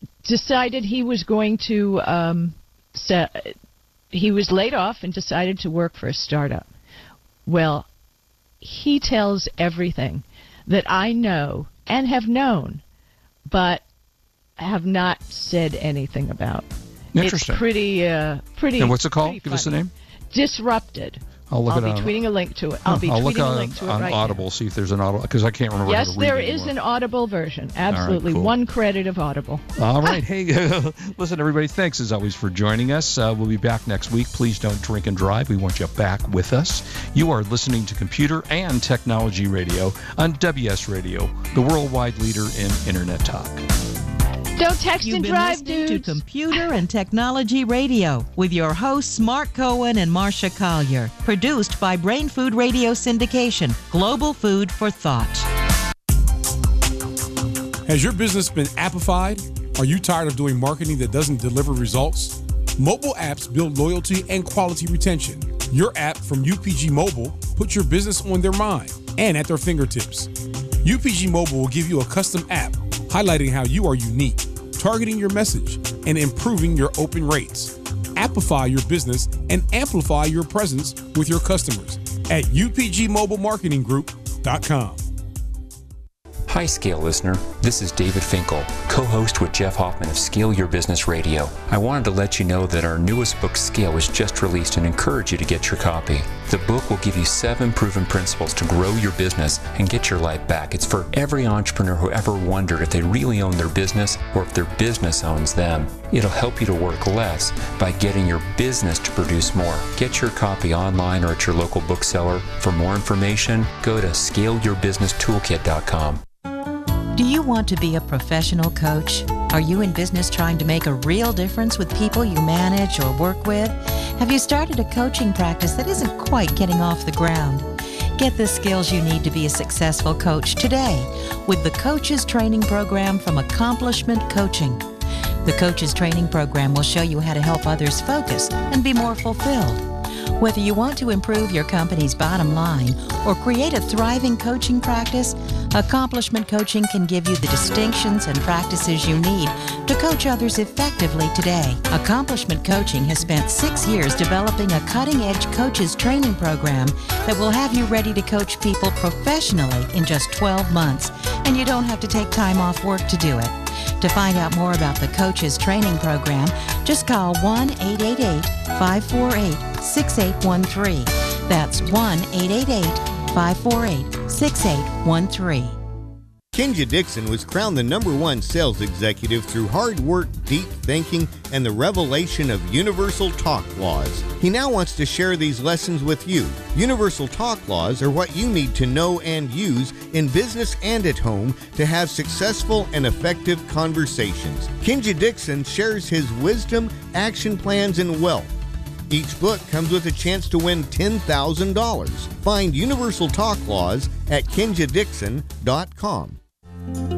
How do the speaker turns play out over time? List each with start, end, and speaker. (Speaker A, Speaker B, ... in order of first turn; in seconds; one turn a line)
Speaker A: 0.2-3.6
Speaker A: 4.1-6.7
Speaker A: 7.5-7.9
Speaker A: 8.6-12.8
Speaker A: 13.5-13.8
Speaker A: 14.6-16.7
Speaker B: 17.1-17.6
Speaker A: 17.2-19.8
Speaker B: 18.8-19.9
Speaker A: 20.3-24.4
Speaker B: 21.5-22.2
Speaker B: 22.9-26.7
Speaker A: 25.9-30.1
Speaker B: 27.9-28.6
Speaker B: 29.8-43.6
Speaker A: 44.6-46.2
Speaker C: 45.0-55.5
Speaker D: 57.9-70.3
Speaker D: 70.8-85.0
Speaker E: 86.5-116.2
Speaker C: 117.2-134.9
Speaker C: 135.4-175.8
Speaker F: 176.5-198.5
Speaker F: 199.1-206.4